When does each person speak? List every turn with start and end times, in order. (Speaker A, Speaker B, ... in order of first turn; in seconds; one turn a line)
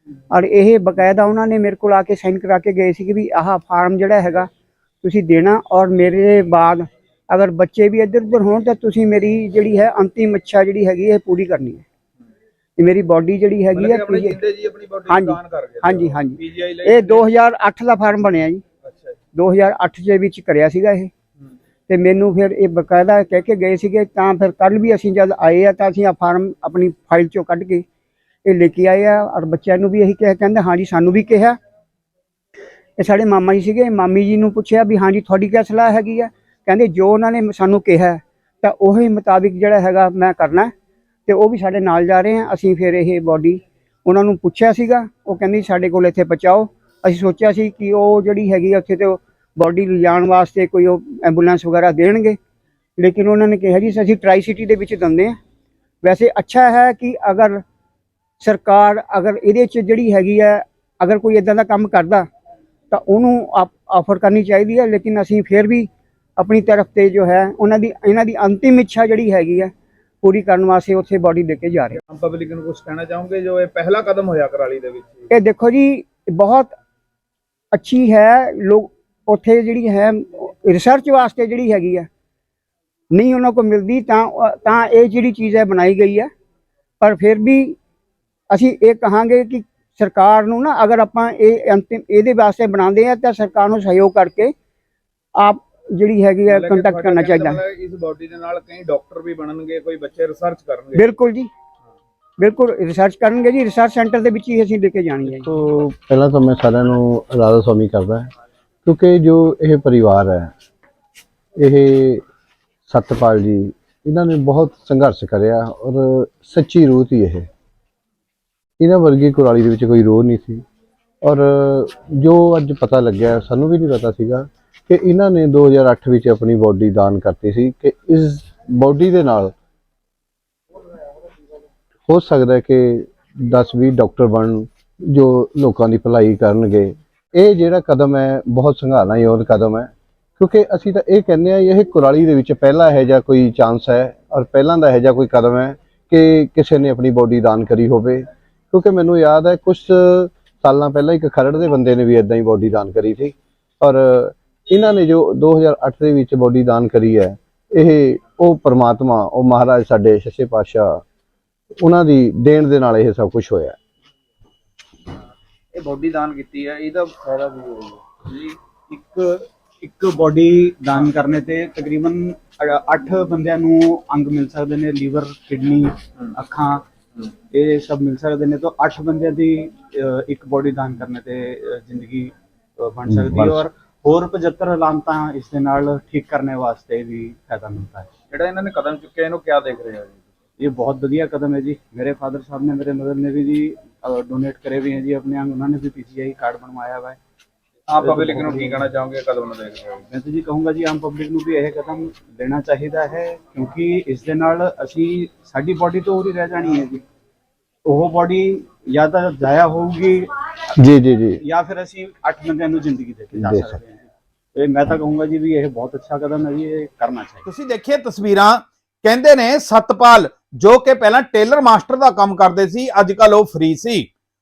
Speaker A: 0.3-4.5
Speaker A: 5.0-11.8
Speaker A: 12.8-14.4
Speaker B: 13.7-17.2
Speaker A: 15.1-18.6
Speaker B: 18.8-19.2
Speaker A: 19.3-21.1
Speaker A: 21.9-27.8
Speaker A: 28.4-31.6
Speaker A: 33.0-40.7
Speaker A: 41.3-52.4
Speaker A: 53.0-55.3
Speaker A: 56.0-57.6
Speaker A: 58.4-62.2
Speaker A: 62.9-69.7
Speaker A: 70.2-72.0
Speaker B: 72.1-75.3
Speaker A: 75.3-76.7
Speaker A: 77.7-82.1
Speaker A: 83.1-86.3
Speaker A: 87.0-87.8
Speaker A: 88.5-94.5
Speaker A: 95.4-97.6
Speaker B: 96.5-101.1
Speaker A: 101.0-101.5
Speaker A: 102.4-105.5
Speaker C: 105.3-108.3
Speaker C: 108.8-110.5
Speaker C: 111.6-112.2
Speaker C: 112.9-117.5
Speaker C: 118.8-120.6
Speaker C: 121.2-129.5
Speaker C: 132.1-161.0
Speaker C: 161.8-163.8
Speaker B: 165.7-168.5
Speaker D: 168.9-176.8
Speaker D: 177.5-188.1
Speaker C: 183.1-183.6
Speaker B: 188.3-190.2
Speaker D: 190.6-197.2
Speaker B: 197.9-200.1
Speaker D: 198.0-198.9
Speaker D: 200.1-207.0
Speaker D: 207.8-210.3
Speaker C: 210.8-211.4
Speaker D: 211.4-217.4
Speaker C: 213.3-213.8
Speaker E: 217.4-224.1